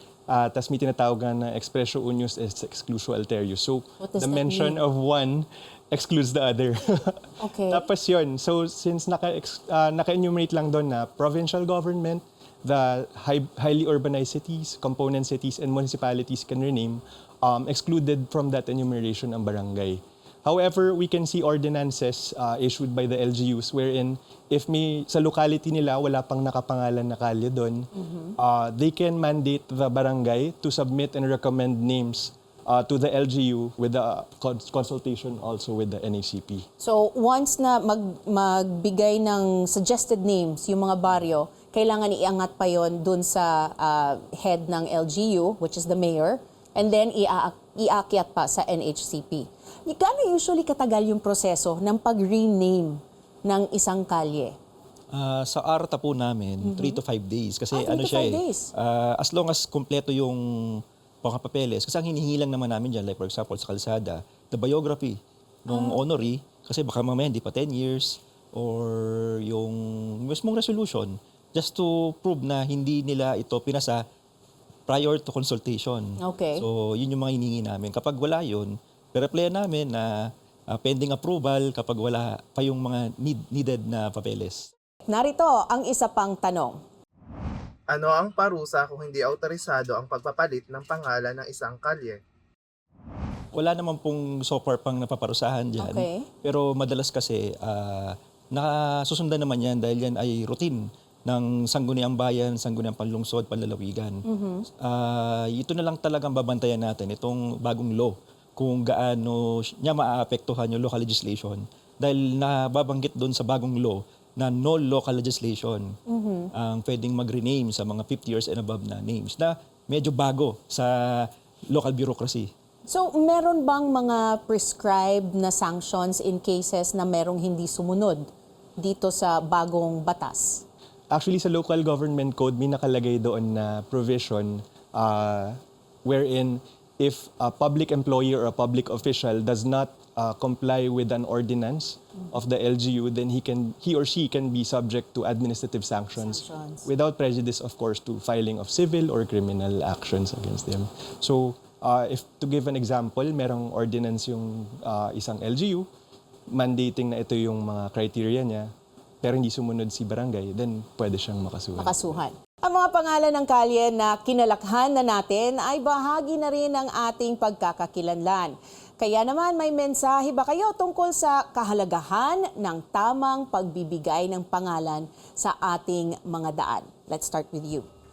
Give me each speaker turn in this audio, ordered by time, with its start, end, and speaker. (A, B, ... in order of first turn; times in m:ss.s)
0:00.3-0:36.6 A
0:04.0-0:04.8 B
0:07.4-0:07.8 B
0:28.0-0:28.3 B
0:36.8-0:54.5 B
0:55.1-1:14.0 C
0:56.6-0:57.0 B
0:57.7-0:58.7 B
1:05.7-1:06.0 B
1:14.9-1:24.7 C
1:16.2-1:16.6 B
1:25.1-1:26.8 B
1:27.9-1:32.2 D
1:33.5-1:44.2 C
1:35.8-1:36.3 B
1:44.2-1:44.6 B
1:44.8-1:55.9 C
1:56.1-1:56.5 B
1:56.5-2:02.5 C
2:02.8-2:08.2 B
2:08.8-2:10.6 B
2:11.1-2:35.8 A
2:26.2-2:26.9 B
2:36.5-2:38.7 A
2:39.2-2:42.1 A
2:41.8-2:57.9 B